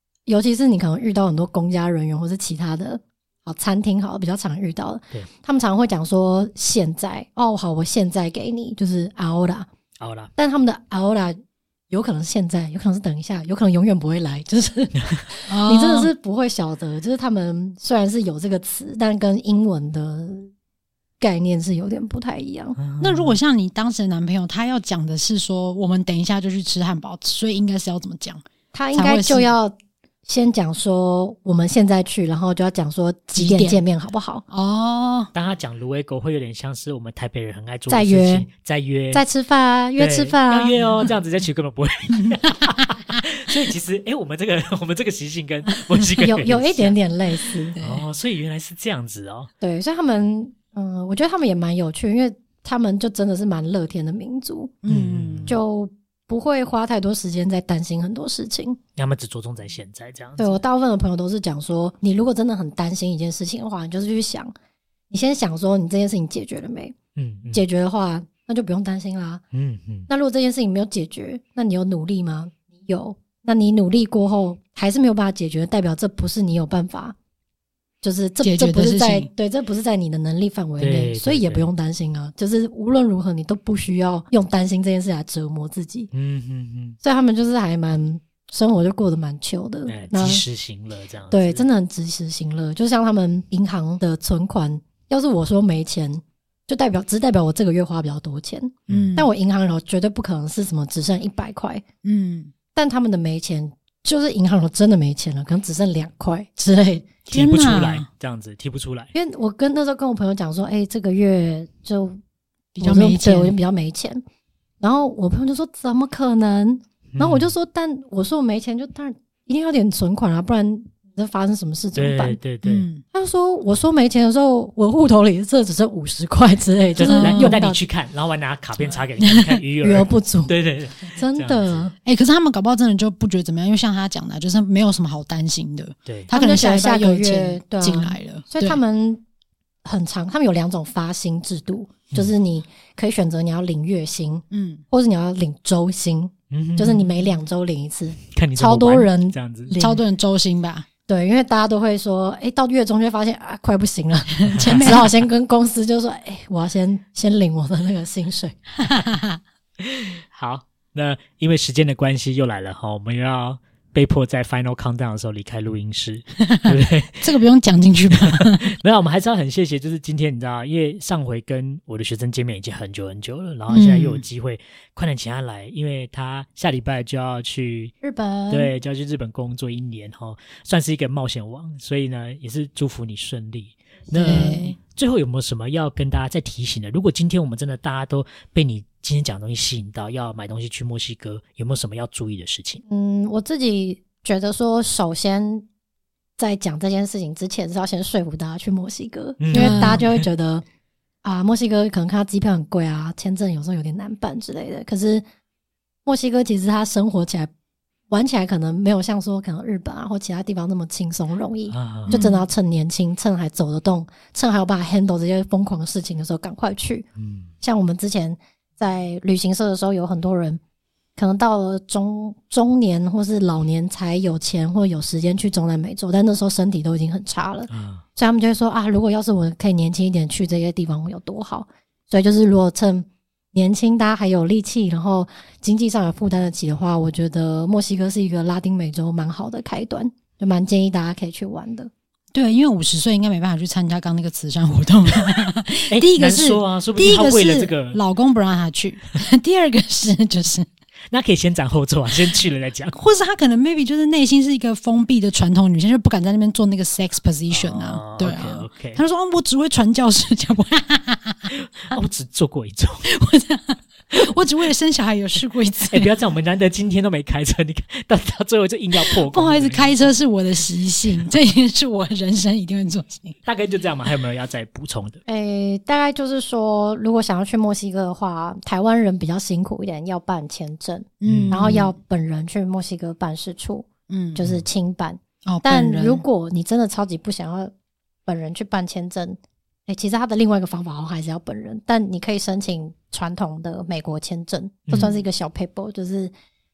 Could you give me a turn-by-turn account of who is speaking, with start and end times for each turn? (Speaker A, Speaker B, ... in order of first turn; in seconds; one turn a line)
Speaker A: 0.3-9.7
Speaker B: 10.0-10.3
Speaker A: 10.4-20.5
Speaker C: 15.5-16.1
Speaker A: 21.2-22.8
Speaker B: 22.8-23.4
Speaker C: 23.0-28.4
Speaker A: 28.7-29.8
Speaker C: 28.9-29.5
Speaker A: 30.3-34.5
Speaker C: 33.4-33.8
Speaker C: 34.5-35.3
Speaker B: 35.3-39.2
Speaker A: 37.9-38.5
Speaker A: 39.1-40.8
Speaker B: 40.0-47.0
Speaker A: 46.2-47.8
Speaker C: 47.8-48.0
Speaker B: 47.8-49.5
Speaker A: 49.6-54.7
Speaker C: 54.8-55.6
Speaker B: 54.9-55.6
Speaker A: 55.5-58.8
Speaker B: 59.0-60.6
Speaker A: 60.4-64.5
Speaker A: 65.1-67.0
Speaker B: 67.2-67.6
Speaker A: 67.5-69.4
Speaker B: 69.5-70.1
Speaker A: 70.1-77.2
Speaker A: 78.0-86.1
Speaker C: 78.4-79.3
Speaker B: 80.8-81.7
Speaker B: 86.1-87.0
Speaker A: 87.0-90.4
Speaker B: 89.9-91.7
Speaker A: 91.3-101.8
Speaker B: 98.9-99.1
Speaker C: 98.9-99.3
Speaker C: 102.0-102.5
Speaker A: 102.8-107.1
Speaker C: 107.3-108.1
Speaker B: 107.3-109.1
Speaker A: 109.1-112.2
Speaker C: 112.8-113.5
Speaker A: 112.8-114.2
Speaker A: 114.8-122.4
Speaker B: 117.1-117.5
Speaker B: 122.0-122.9
Speaker C: 122.6-123.0
Speaker A: 123.1-127.8
Speaker B: 127.0-131.9
Speaker C: 127.0-127.6
Speaker C: 129.2-129.6
Speaker A: 129.8-130.5
Speaker A: 131.2-131.9
Speaker C: 132.1-138.8
Speaker A: 136.3-139.2
Speaker A: 139.8-150.0
Speaker C: 144.5-144.8
Speaker B: 146.5-147.2
Speaker B: 148.3-149.7
Speaker C: 149.8-150.9
Speaker A: 151.1-158.6
Speaker C: 154.4-155.1
Speaker B: 154.6-154.9
Speaker C: 158.8-159.4
Speaker B: 159.8-167.3
Speaker C: 166.5-168.7
Speaker B: 168.1-178.0
Speaker C: 173.7-174.2
Speaker A: 178.0-178.7
Speaker B: 178.5-192.8
Speaker A: 184.1-184.8
Speaker C: 184.2-184.8
Speaker A: 192.9-195.7
Speaker A: 196.4-200.6
Speaker B: 199.4-200.2
Speaker C: 199.5-200.0
Speaker A: 201.2-205.2
Speaker A: 206.1-207.5
Speaker A: 208.1-217.1
Speaker B: 211.7-212.2
Speaker C: 212.1-212.5
Speaker B: 217.2-217.5
Speaker A: 217.6-220.6
Speaker A: 221.2-241.9
Speaker B: 227.7-228.0
Speaker C: 242.3-250.7
Speaker B: 245.9-248.0
Speaker B: 251.1-253.0
Speaker C: 252.9-261.5
Speaker B: 257.5-259.0
Speaker B: 261.5-263.1
Speaker C: 263.1-266.1
Speaker B: 265.9-270.1
Speaker C: 268.9-273.4
Speaker B: 273.5-275.2
Speaker A: 275.3-287.7
Speaker C: 281.2-281.9
Speaker B: 281.2-281.6
Speaker C: 284.1-284.4
Speaker C: 285.5-286.2
Speaker A: 288.3-296.3
Speaker B: 294.9-295.1